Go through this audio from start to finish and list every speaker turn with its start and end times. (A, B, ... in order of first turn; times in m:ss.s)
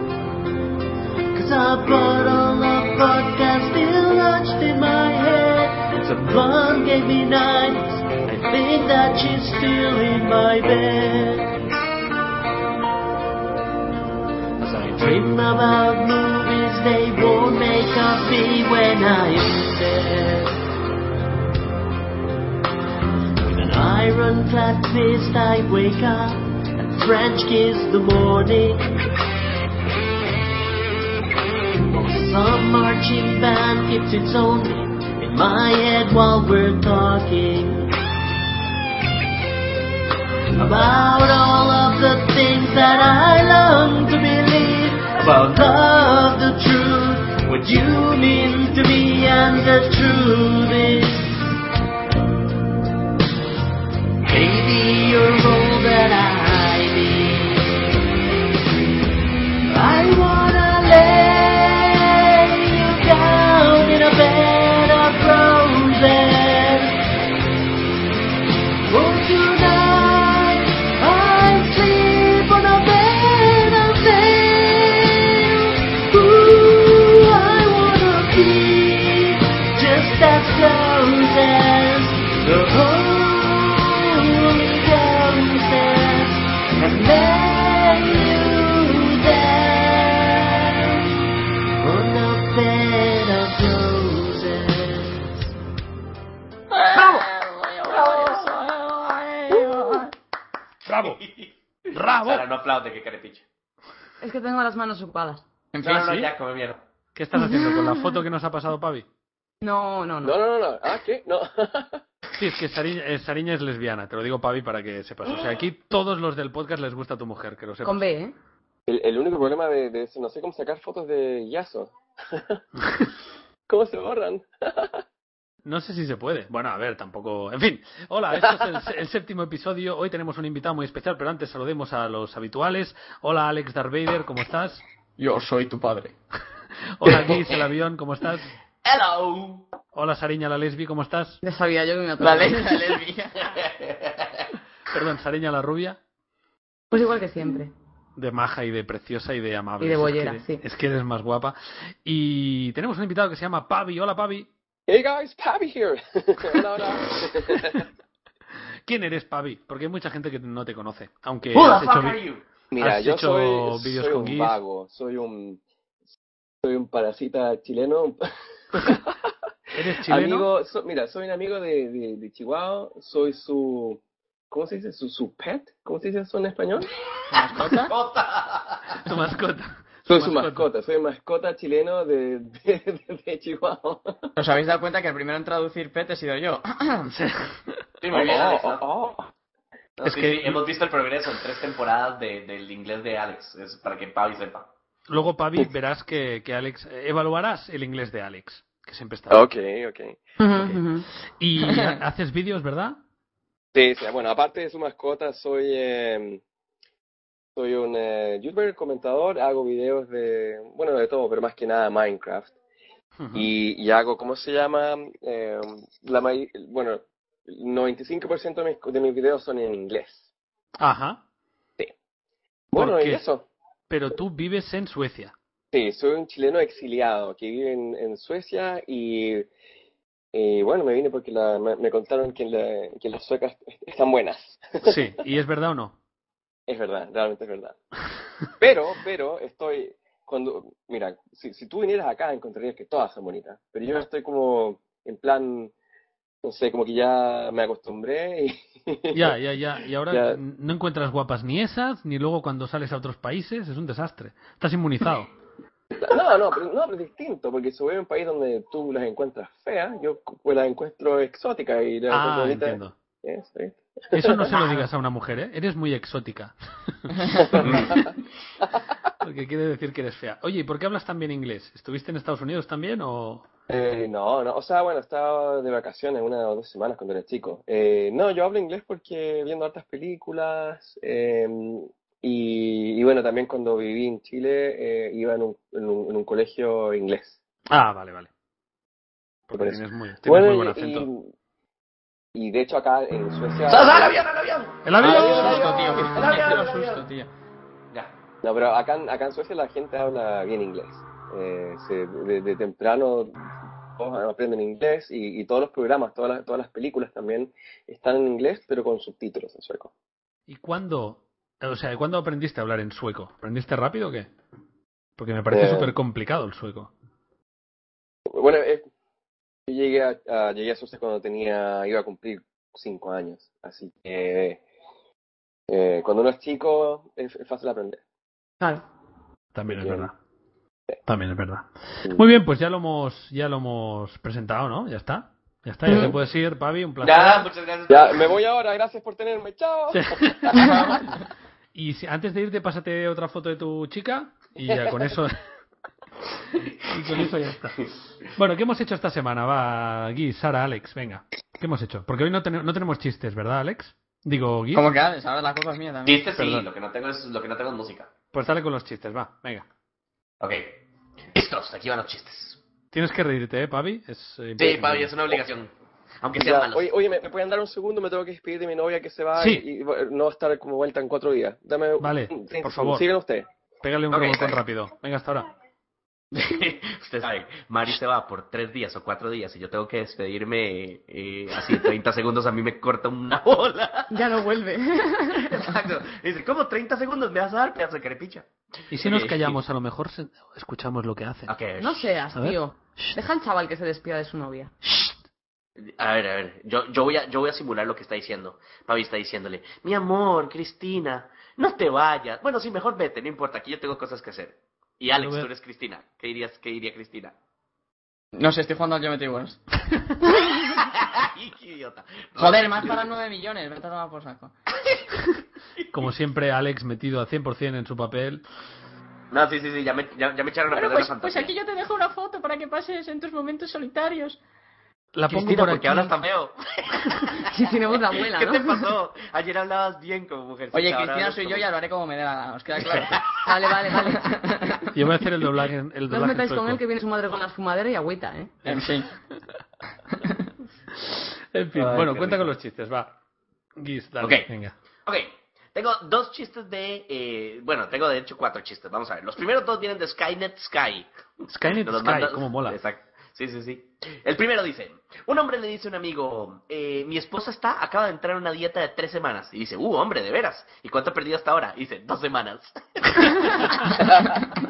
0:01.3-0:11.5 A
0:14.6-0:15.1 B
0:15.0-0:20.6 A
0:23.4-0:28.8 A
0:31.9-0:37.9 A
0:40.6-0:51.4 A
0:54.2-0:57.7 A
0:59.7-1:07.0 A
1:08.9-1:31.1 A
1:31.8-1:35.5 A
1:36.7-1:40.1 C
1:40.8-1:41.2 D
1:41.0-1:43.4 B
1:41.9-1:42.4 D
1:44.2-1:45.4 E
1:45.7-1:46.0 C
1:45.8-1:46.8 B
1:45.9-1:46.3 D
1:47.1-1:49.1 D
1:49.6-1:50.4 E
1:50.2-1:52.0 F
1:52.4-1:58.0 D
1:57.8-1:58.3 E
1:58.9-2:02.6 F
2:03.7-2:05.0 F
2:05.6-2:14.8 D
2:15.2-2:16.1 C
2:17.0-2:18.5 D
2:17.2-2:17.5 B
2:18.8-2:19.7 B
2:19.9-2:21.4 D
2:21.4-2:22.9 E
2:22.2-2:23.6 C
2:23.5-2:24.5 B
2:24.9-2:26.0 D
2:26.9-2:27.7 E
2:28.2-2:34.5 D
2:29.8-2:30.6 E
2:34.9-2:37.8 F
2:37.4-2:37.8 D
2:38.8-2:42.2 D
2:41.5-2:42.4 B
2:42.7-2:45.6 F
2:42.8-2:44.6 D
2:46.6-2:48.2 F
2:48.7-2:49.3 F
2:49.7-2:50.4 D
2:50.0-2:56.9 F
2:57.3-2:57.9 C
2:57.4-2:59.0 B
2:59.0-3:00.6 D
3:00.1-3:04.3 F
3:04.4-3:07.1 C
3:07.1-3:07.6 D
3:08.0-3:08.8 B
3:08.1-3:09.3 F
3:10.0-3:14.7 B
3:10.0-3:10.6 D
3:15.1-3:19.4 D
3:19.3-3:20.2 F
3:20.4-3:21.1 E
3:21.4-3:23.0 D
3:21.6-3:22.0 C
3:23.7-3:26.4 F
3:27.6-3:32.5 F
3:33.2-3:33.5 D
3:33.3-3:40.3 F
3:40.8-3:41.2 D
3:42.7-3:43.5 F
3:42.7-3:43.2 D
3:43.9-3:45.3 D
3:45.7-3:49.5 F
3:50.3-3:55.1 F
3:54.8-3:56.0 D
3:56.7-3:57.8 F
3:58.6-4:05.7 F
4:06.4-4:09.4 F
4:09.1-4:15.3 D
4:10.1-4:10.4 F
4:15.9-4:24.8 F
4:22.1-4:22.9 D
4:24.1-4:28.1 D
4:27.6-4:28.0 B
4:29.2-4:33.5 D
4:33.7-4:47.4 F
4:47.7-4:48.3 D
4:49.5-4:51.1 D
4:49.5-4:51.3 F
4:52.3-4:54.2 F
4:53.7-4:57.0 B
4:54.8-4:55.9 D
4:55.0-4:57.3 C
4:55.0-4:55.9 F
4:58.4-5:09.9 F
5:10.5-5:14.3 D
5:15.2-5:16.9 D
5:15.5-5:16.0 F
5:18.3-5:18.8 F
5:19.7-5:24.6 F
5:25.7-5:28.0 F
5:29.5-5:30.1 D
5:29.7-5:30.1 F
5:31.1-5:37.5 D
5:35.9-5:36.1 E
5:37.0-5:38.4 B
5:37.9-5:40.4 F
5:39.9-5:41.0 D
5:40.5-5:41.2 C
5:41.7-5:45.4 D
5:46.6-5:54.9 D
5:54.7-5:56.4 C
5:56.0-5:58.1 B
5:58.3-5:59.6 D
6:00.4-6:00.7 B
6:01.3-6:02.6 B
6:02.9-6:05.1 D
6:04.6-6:05.7 B
6:06.2-6:06.9 B
6:06.4-6:13.5 F
6:09.4-6:09.6 D
6:12.0-6:13.0 D
6:13.8-6:15.5 D
6:14.1-6:14.6 B
6:16.3-6:24.2 B
6:24.1-6:25.5 E
6:25.3-6:28.4 B
6:28.9-6:31.5 D
6:29.0-6:29.6 B
6:31.5-6:32.1 B
6:31.8-6:34.7 E
6:35.8-6:47.3 B
6:45.2-6:45.5 D
6:48.3-6:49.6 C
6:50.4-6:53.0 B
6:52.4-6:54.5 C
6:55.9-6:58.4 D
6:59.3-7:01.5 B
7:00.7-7:04.4 A
7:01.0-7:04.3 C
7:05.1-7:06.1 D
7:05.3-7:11.7 B
7:07.4-7:08.9 E
7:10.7-7:13.2 C
7:12.9-7:13.4 B
7:13.4-7:14.3 E
7:13.9-7:14.9 C
7:14.9-7:16.8 D
7:16.1-7:18.5 E
7:18.6-7:19.1 C
7:20.9-7:23.1 D
7:21.7-7:22.5 B
7:23.8-7:24.7 D
7:24.2-7:24.5 B
7:25.0-7:44.4 B
7:31.5-7:32.8 D
7:43.6-7:44.0 D